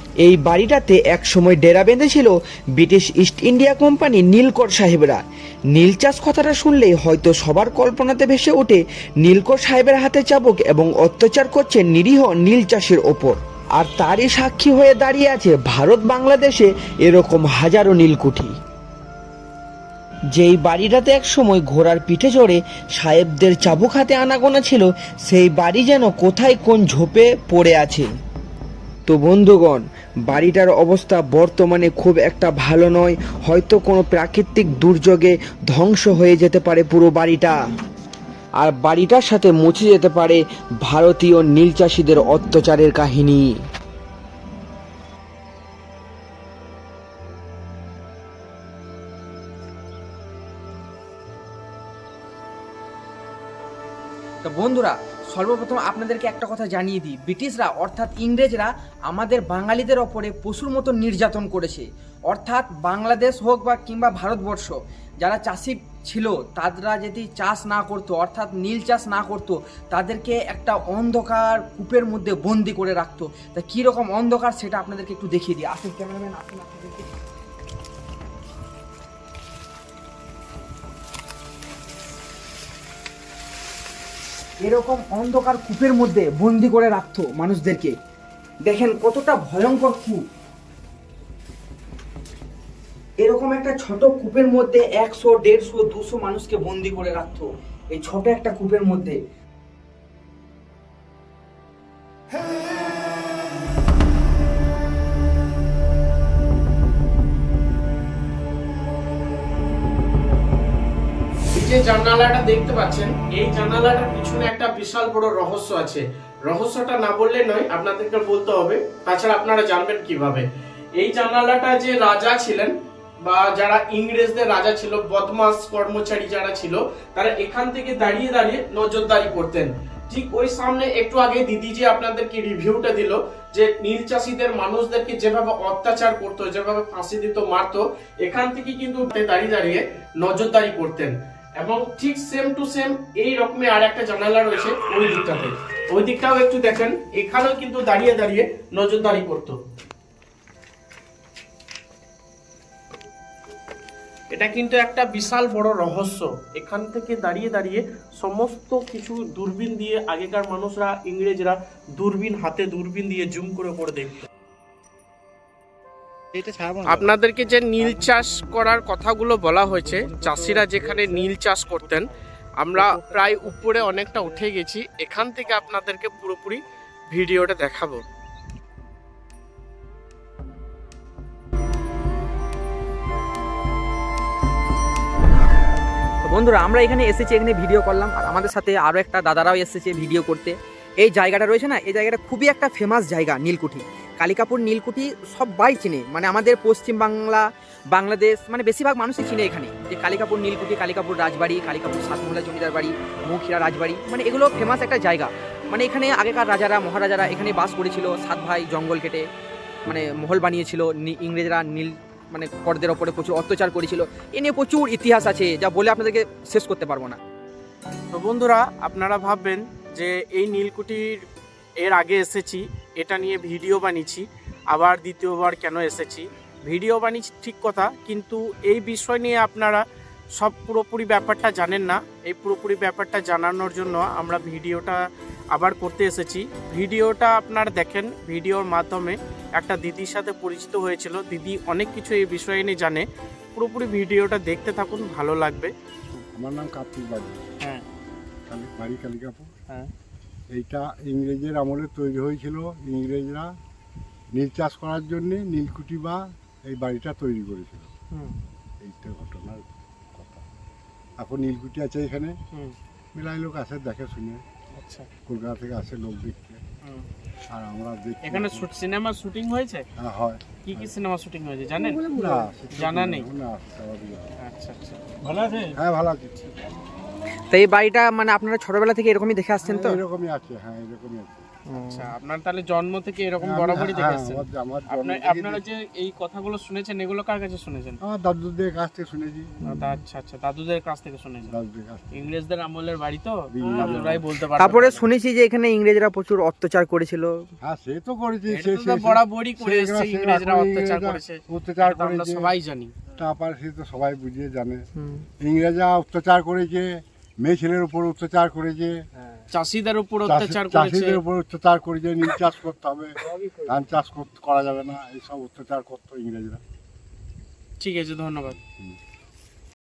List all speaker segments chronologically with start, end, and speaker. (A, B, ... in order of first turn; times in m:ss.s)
0:00.2-0:18.5 A
0:20.3-0:28.1 A
0:29.1-0:37.6 A
0:38.6-0:43.6 A
0:54.4-1:17.1 A
1:24.6-1:27.9 A
1:28.6-1:30.2 A
1:33.2-1:39.2 A
1:51.6-2:00.4 B
2:01.0-2:02.7 B
2:03.2-2:29.6 B
2:34.3-2:44.3 B
2:46.8-2:52.1 B
2:52.6-2:58.0 B
3:06.2-3:29.3 A
3:29.8-3:37.2 A
3:38.1-3:41.2 B
3:41.8-3:49.8 B
3:50.4-3:55.0 B
3:55.5-4:05.7 B
4:06.4-4:07.4 C
4:08.5-4:09.5 C
4:10.5-4:13.5 C
4:14.3-4:17.9 C
4:18.8-4:20.4 C
4:21.2-4:22.4 C
4:23.2-4:24.4 C
4:24.8-4:25.1 B
4:25.3-4:26.6 C
4:27.5-4:28.7 C
4:28.2-4:29.8 B
4:30.0-4:30.9 C
4:30.6-4:32.2 B
4:32.0-4:34.3 C
4:32.8-4:33.3 B
4:34.4-4:35.8 B
4:35.7-4:36.7 C
4:37.5-4:40.0 A
4:39.6-4:41.5 C
4:41.7-4:48.0 B
4:41.8-4:42.1 A
4:43.4-4:45.6 C
4:48.0-4:49.6 C
4:49.6-4:50.0 A
4:49.6-4:51.6 B
4:51.5-4:52.3 C
4:52.1-4:55.0 B
4:53.5-4:54.3 C
4:54.6-4:57.4 A
4:57.6-5:02.5 C
4:58.5-5:03.0 B
5:03.2-5:04.8 C
5:05.0-5:05.2 A
5:05.4-5:09.0 C
5:09.5-5:11.2 B
5:10.2-5:16.6 C
5:17.8-5:18.6 B